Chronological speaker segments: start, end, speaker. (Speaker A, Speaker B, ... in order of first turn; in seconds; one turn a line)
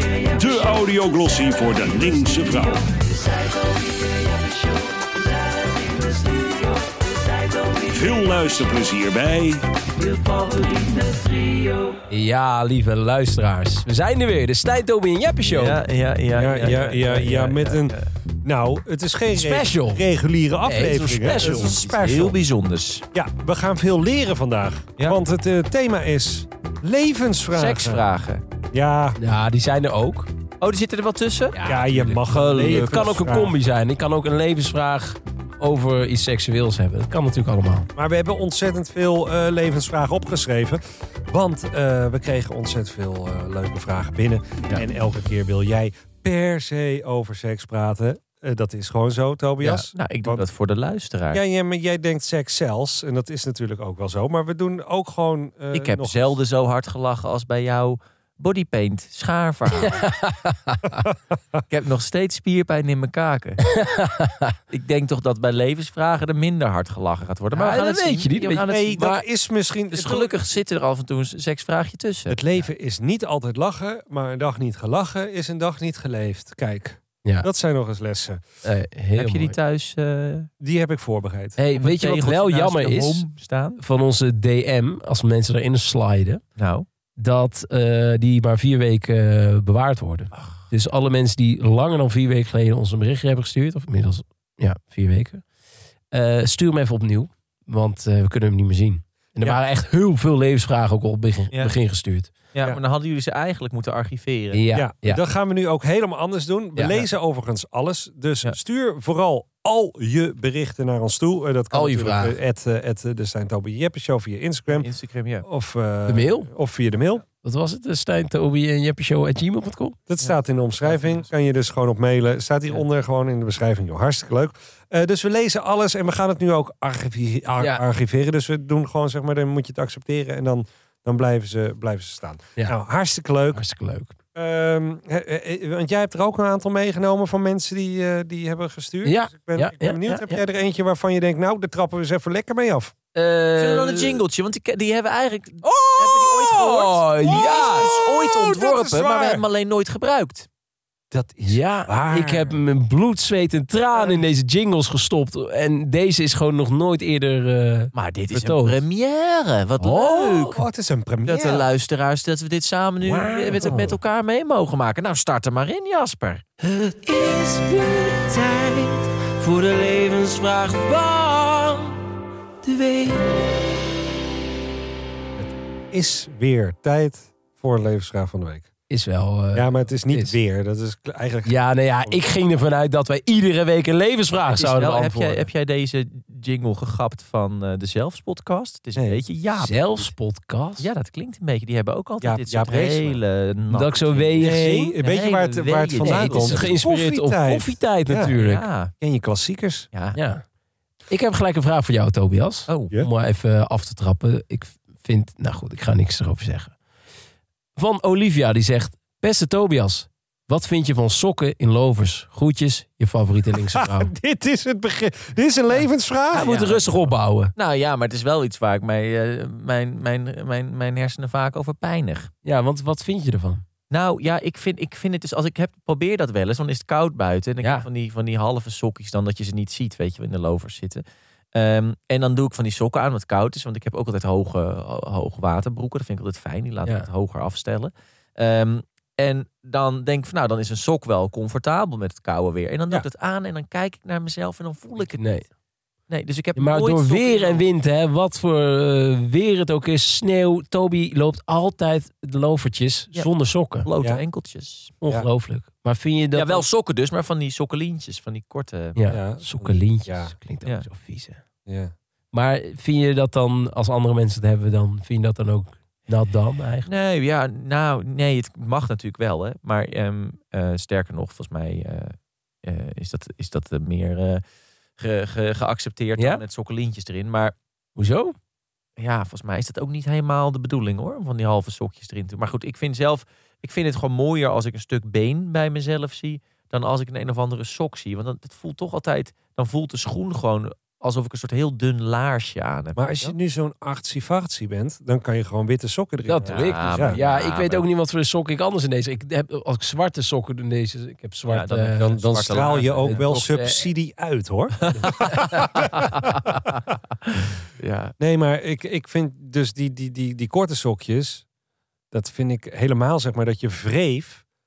Speaker A: 0.3-2.9
Speaker B: 3.0-4.6
Speaker B: 5.5-8.0
Speaker A: 7.9-9.7
Speaker B: 9.9-15.8
Speaker C: 15.5-18.1
Speaker D: 16.4-22.4
Speaker B: 19.3-20.0
Speaker B: 20.7-21.8
Speaker C: 21.2-23.1
Speaker D: 23.1-28.1
Speaker C: 27.5-28.4
Speaker D: 28.7-29.2
Speaker B: 29.2-30.3
Speaker C: 30.6-31.6
Speaker B: 31.5-37.9
Speaker D: 31.6-33.5
Speaker D: 38.0-50.5
Speaker C: 49.6-51.4
Speaker D: 51.3-56.3
Speaker C: 55.7-60.1
Speaker B: 59.8-61.0
Speaker C: 61.7-63.6
Speaker B: 63.6-64.6
Speaker C: 64.7-69.1
Speaker B: 67.5-69.2
Speaker D: 68.5-70.4
Speaker C: 69.9-72.6
Speaker D: 72.3-78.4
Speaker B: 78.7-79.5
Speaker C: 79.2-80.5
Speaker D: 80.6-81.6
Speaker B: 81.6-83.2
Speaker C: 81.7-83.8
Speaker B: 83.8-86.4
Speaker C: 86.6-86.9
Speaker B: 87.2-95.4
Speaker B: 96.1-102.3
Speaker C: 102.5-104.6
Speaker B: 104.5-105.2
Speaker D: 104.7-114.9
Speaker B: 106.8-107.0
Speaker B: 111.7-112.4
Speaker C: 114.7-115.5
Speaker D: 115.4-117.2
Speaker B: 116.1-116.5
Speaker B: 117.4-120.0
Speaker D: 120.1-133.6
Speaker C: 120.2-121.3
Speaker B: 133.5-134.1
Speaker D: 134.3-142.9
Speaker B: 139.0-140.4
Speaker B: 143.2-144.2
Speaker C: 143.6-150.5
Speaker B: 145.7-147.9
Speaker D: 147.2-149.4
Speaker D: 151.1-152.6
Speaker B: 151.4-158.8
Speaker D: 153.9-154.2
Speaker C: 157.9-160.6
Speaker B: 159.8-160.4
Speaker D: 160.4-161.7
Speaker C: 161.3-166.4
Speaker B: 163.0-163.8
Speaker D: 163.6-164.0
Speaker B: 166.6-172.0
Speaker B: 172.6-173.4
Speaker D: 175.4-178.7
Speaker B: 178.9-180.4
Speaker D: 179.5-182.2
Speaker B: 181.4-185.5
Speaker C: 184.5-190.1
Speaker D: 188.9-189.2
Speaker B: 189.6-190.9
Speaker C: 190.8-196.7
Speaker D: 192.2-193.2
Speaker B: 193.7-194.9
Speaker D: 194.4-198.3
Speaker B: 196.0-198.7
Speaker C: 198.4-198.9
Speaker D: 199.0-199.9
Speaker B: 200.1-200.4
Speaker B: 201.1-206.7
Speaker C: 202.7-202.9
Speaker B: 207.8-214.1
Speaker D: 213.5-216.5
Speaker B: 216.3-217.5
Speaker C: 216.3-222.3
Speaker B: 222.4-223.7
Speaker C: 223.9-245.4
Speaker B: 245.2-245.4
Speaker C: 246.1-247.6
Speaker B: 246.6-253.9
Speaker C: 253.8-254.9
Speaker B: 255.0-256.6
Speaker C: 256.4-259.0
Speaker B: 259.0-261.4
Speaker D: 259.1-260.4
Speaker D: 261.7-261.9
Speaker B: 262.3-266.9
Speaker C: 266.9-274.4
Speaker C: 275.0-277.5
Speaker B: 276.2-276.4
Speaker B: 278.0-278.4
Speaker C: 279.0-293.4
Speaker D: 293.0-297.2
Speaker B: 296.3-302.1
Speaker C: 296.5-297.8
Speaker C: 301.5-303.2
Speaker D: 302.0-306.1
Speaker B: 303.0-303.9
Speaker B: 305.0-305.6
Speaker C: 307.8-308.1
Speaker D: 308.2-311.4
Speaker D: 312.1-314.4